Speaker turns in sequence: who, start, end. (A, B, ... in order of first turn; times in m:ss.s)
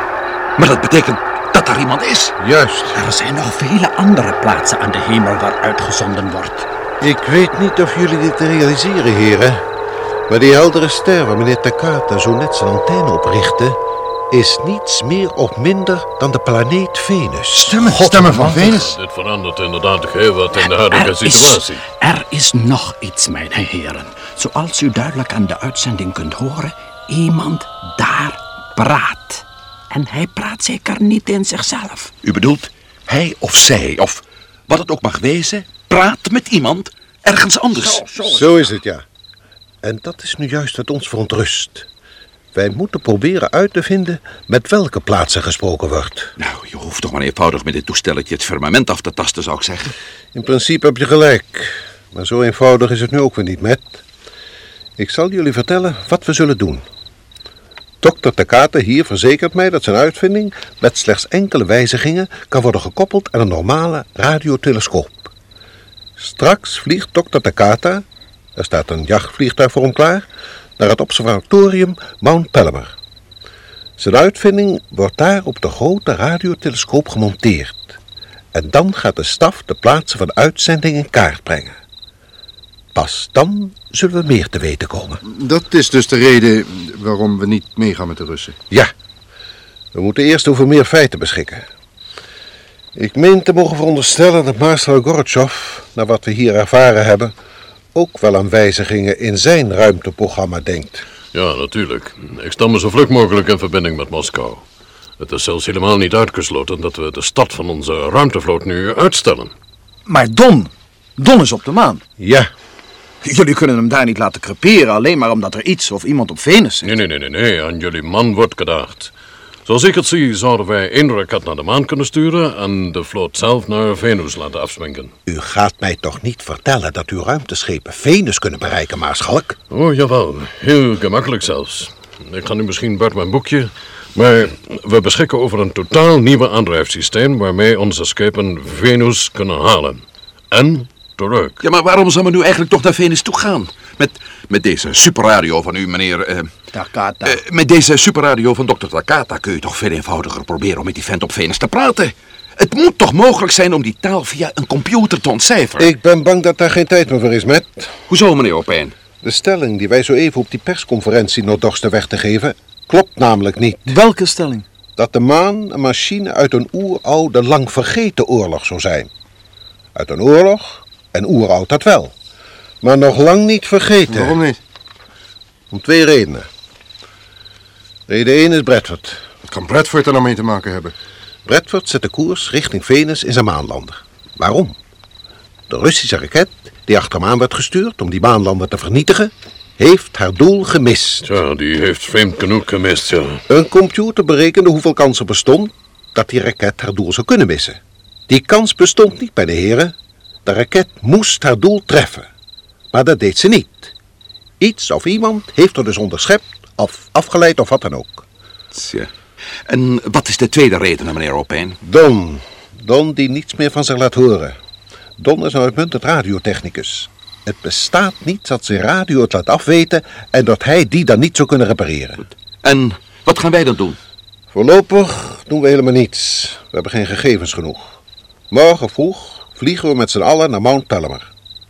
0:00.6-0:02.3 A
0:02.4-0:03.0 B
0:02.9-0:06.7 C
0:07.0-0:09.6 B
0:10.3-0:13.8 B
0:14.3-0:18.7 B
0:18.2-0:21.8 D
0:20.5-0:32.1 C
0:32.2-0:38.0 A
0:37.7-0:38.7 C
0:38.2-0:39.0 B
0:39.8-0:41.9 B
0:42.5-0:46.3 B
0:46.4-0:49.9 A
0:50.3-0:54.0 B
0:55.0-0:56.8 B
0:58.0-1:05.3 B
1:06.2-1:08.0 B
1:08.6-1:10.3 B
1:10.8-1:12.9 B
1:14.0-1:18.0 B
1:18.5-1:21.8 B
1:22.9-1:25.2 B
1:25.3-1:28.6 E
1:29.9-1:31.6 B
1:32.9-1:37.3 B
1:37.9-1:41.0 B
1:41.3-1:44.6 D
1:45.2-1:49.5 D
1:50.0-1:52.0 F
1:52.2-1:52.5 B
1:53.2-1:56.9 F
1:56.8-1:59.1 D
1:59.6-2:05.1 D
2:05.2-2:09.6 B
2:09.7-2:21.6 D
2:21.6-2:26.5 A
2:26.7-2:27.4 C
2:27.2-2:35.9 A
2:35.8-2:38.0 B
2:38.1-2:38.9 A
2:39.2-2:44.0 B
2:43.9-2:44.6 F
2:45.0-2:49.1 B
2:49.9-2:52.1 B
2:52.8-2:54.4 B
2:54.1-2:54.6 E
2:55.7-2:56.5 B
2:58.1-2:59.2 B
2:59.5-3:00.9 E
3:01.4-3:04.8 B
3:05.7-3:11.3 B
3:11.2-3:13.4 D
3:13.5-3:22.3 B
3:22.9-3:23.9 B
3:24.6-3:28.2 B
3:28.7-3:29.1 A
3:29.7-3:31.8 A
3:31.8-3:34.5 B
3:35.2-3:42.2 B
3:42.6-3:44.0 A
3:44.5-3:48.0 B
3:48.5-3:51.3 B